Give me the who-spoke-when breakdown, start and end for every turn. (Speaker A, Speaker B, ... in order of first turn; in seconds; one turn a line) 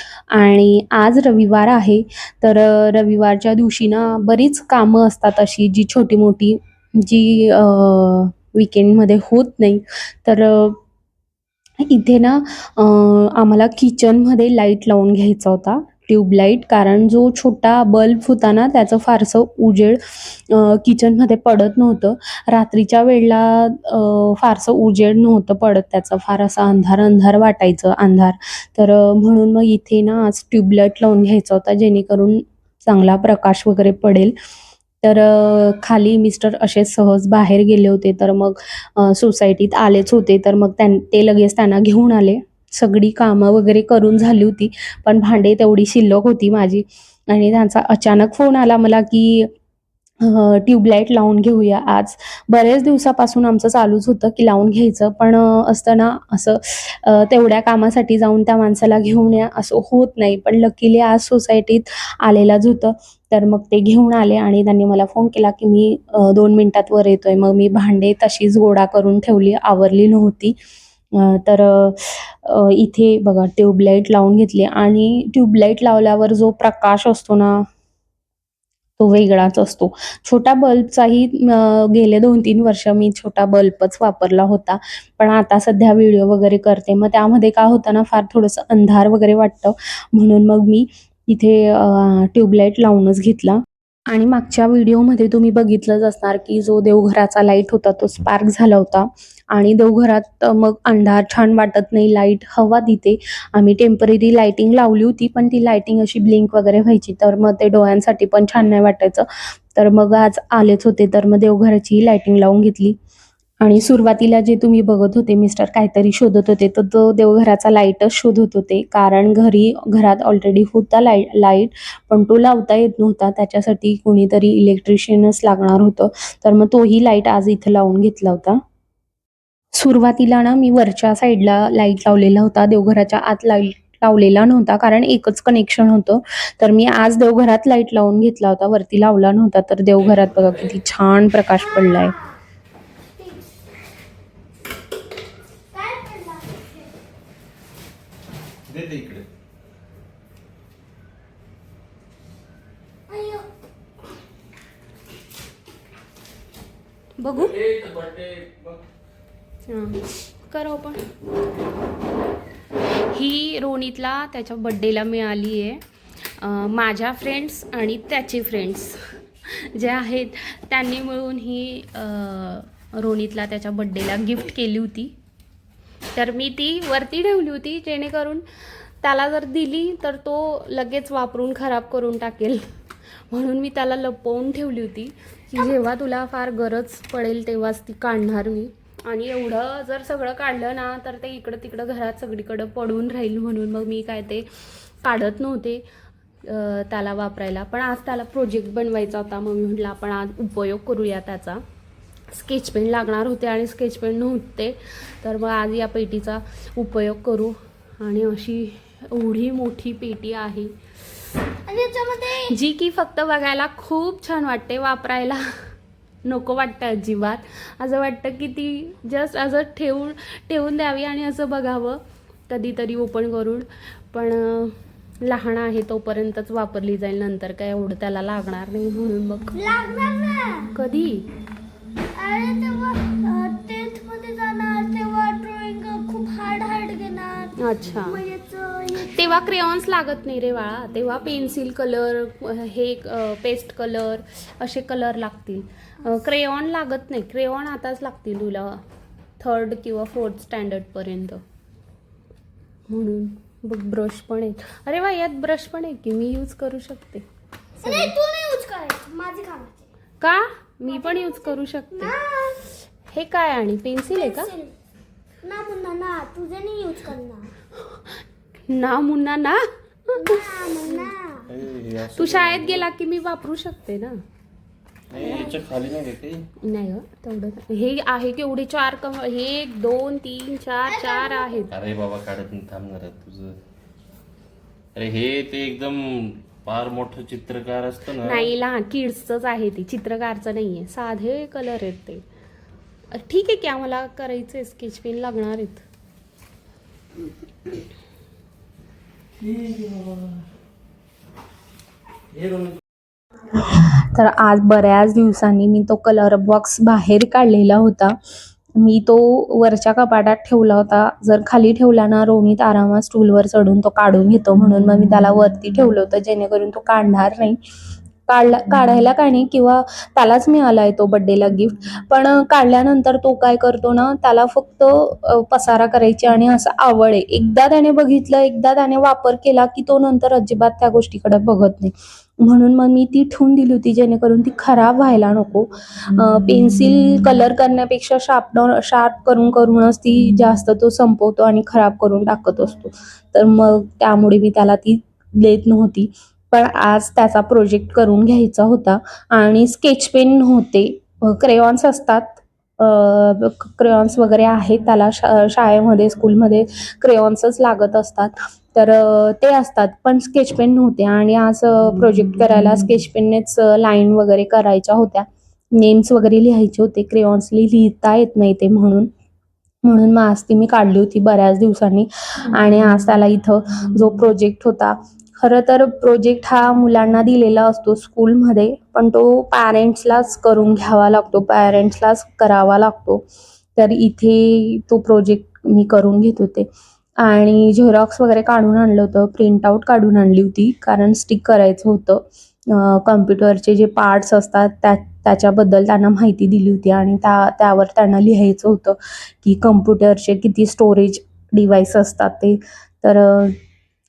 Speaker A: 0.3-10.8
Speaker A: 11.8-34.3
Speaker A: 35.0-49.5
Speaker A: 50.2-70.5
Speaker A: 71.1-77.6
Speaker A: 79.0-113.0
Speaker A: 113.6-128.6
Speaker A: 129.7-142.2
Speaker B: 140.0-140.7
Speaker C: 141.5-142.4
Speaker C: 143.2-143.6
Speaker C: 145.7-146.9
Speaker B: 148.7-149.2
Speaker C: 153.1-153.5
Speaker B: 157.3-158.8
Speaker A: 160.5-161.0
Speaker A: 163.1-165.8
Speaker A: 166.4-168.9
Speaker A: 169.7-175.1
Speaker A: 176.2-178.4
Speaker A: 179.0-182.6
Speaker A: 183.3-194.4
Speaker A: 195.0-195.8
Speaker A: 196.5-201.6
Speaker A: 202.3-210.7
Speaker C: 211.7-212.6
Speaker A: 212.5-215.4
Speaker A: 216.2-222.0
Speaker A: 222.5-224.7
Speaker A: 225.2-229.5
Speaker C: 229.5-230.8
Speaker A: 230.8-231.2
Speaker C: 232.1-239.5
Speaker A: 237.6-238.2
Speaker A: 239.2-248.8
Speaker A: 249.4-251.4
Speaker A: 252.9-257.2
Speaker C: 257.8-259.9
Speaker A: 257.8-258.1
Speaker A: 260.2-262.1
Speaker C: 260.9-262.7
Speaker A: 263.1-264.5
Speaker C: 264.1-264.7
Speaker C: 265.4-267.5
Speaker A: 268.7-269.6
Speaker C: 270.1-271.4
Speaker B: 271.5-272.9
Speaker A: 272.2-274.1
Speaker B: 275.1-276.4
Speaker C: 275.2-275.6
Speaker A: 276.6-281.7
Speaker C: 280.8-281.7
Speaker B: 281.7-283.6
Speaker B: 284.9-288.5
Speaker A: 288.2-292.2
Speaker A: 293.1-295.8
Speaker B: 299.5-300.0
Speaker A: 303.5-308.2
Speaker A: 308.8-317.6
Speaker A: 318.3-369.1
Speaker A: 369.8-383.2
Speaker A: 383.8-386.7
Speaker A: 387.2-403.6